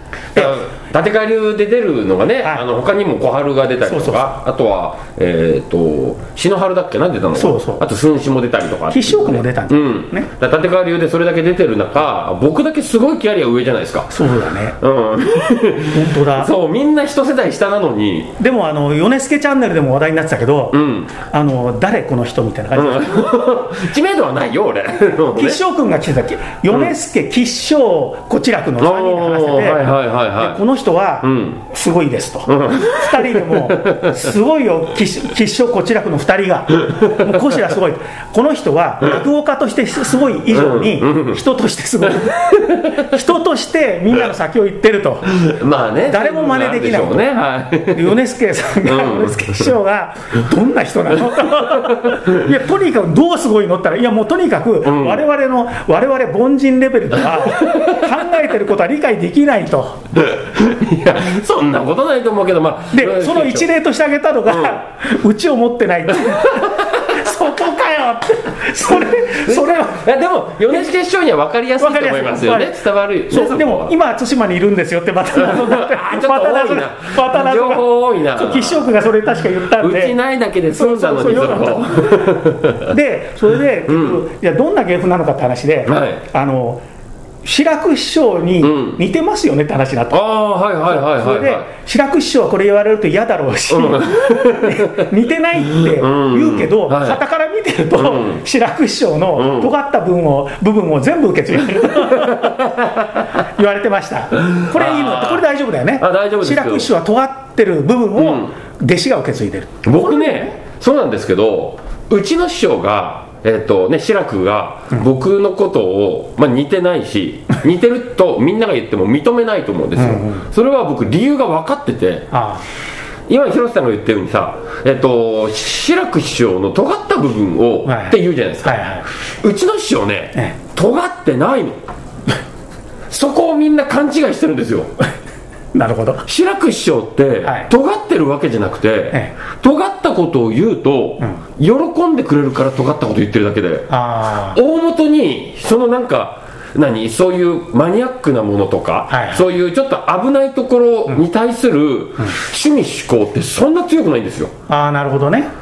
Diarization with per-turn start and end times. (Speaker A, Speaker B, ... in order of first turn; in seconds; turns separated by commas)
Speaker A: 0.3-14.2, Speaker B: 3.9-4.3, Speaker B: 7.3-7.8, Speaker B: 8.9-10.3, Speaker B: 14.1-14.8, Speaker A: 14.8-18.4, Speaker B: 15.9-16.5, Speaker B: 18.4-23.5, Speaker A: 20.7-21.1, Speaker A: 22.8-25.6, Speaker B: 25.3-45.4, Speaker A: 28.8-30.6, Speaker A: 31.2-31.6, Speaker A: 32.5-34.3, Speaker A: 37.0-37.4, Speaker A: 40.5-41.4, Speaker A: 42.1-43.1, Speaker A: 45.3-48.2, Speaker B: 46.1-47.3, Speaker B: 47.9-60.0, Speaker A: 48.8-49.7, Speaker A: 51.3-52.5, Speaker A: 54.8-55.3, Speaker A: 57.2-58.2, Speaker A: 60.1-63.7, Speaker B: 62.9-70.0, Speaker A: 64.5-64.8, Speaker A: 66.1-67.2, Speaker A: 68.9-73.9, Speaker B: 71.8-80.2, Speaker A: 75.3-78.9, Speaker A: 79.8-82.9, Speaker B: 80.8-86.8, Speaker A: 83.9-84.2, Speaker A: 85.9-86.2, Speaker B: 87.4-90.2, Speaker A: 88.6-89.0, Speaker A: 90.1-91.7, Speaker B: 90.9-110.5, Speaker A: 93.7-95.0, Speaker A: 95.8-97.2, Speaker A: 98.0-98.4, Speaker A: 99.4-99.7, Speaker A: 101.7-103.4, Speaker A: 104.4-105.5, Speaker A: 106.0-106.9, Speaker A: 108.2-108.5, Speaker A: 109.8-122.3, Speaker B: 120.0-120.5, Speaker B: 122.3-122.7, Speaker A: 123.3-128.8, Speaker B: 127.8-129.1, Speaker A: 129.4-131.8, Speaker A: 133.1-134.9, Speaker B: 135.7-136.2, Speaker A: 136.3-143.9, Speaker B: 137.4-137.7, Speaker B: 143.9-144.6, Speaker A: 144.5-154.5, Speaker B: 149.1-149.5, Speaker B: 154.7-155.5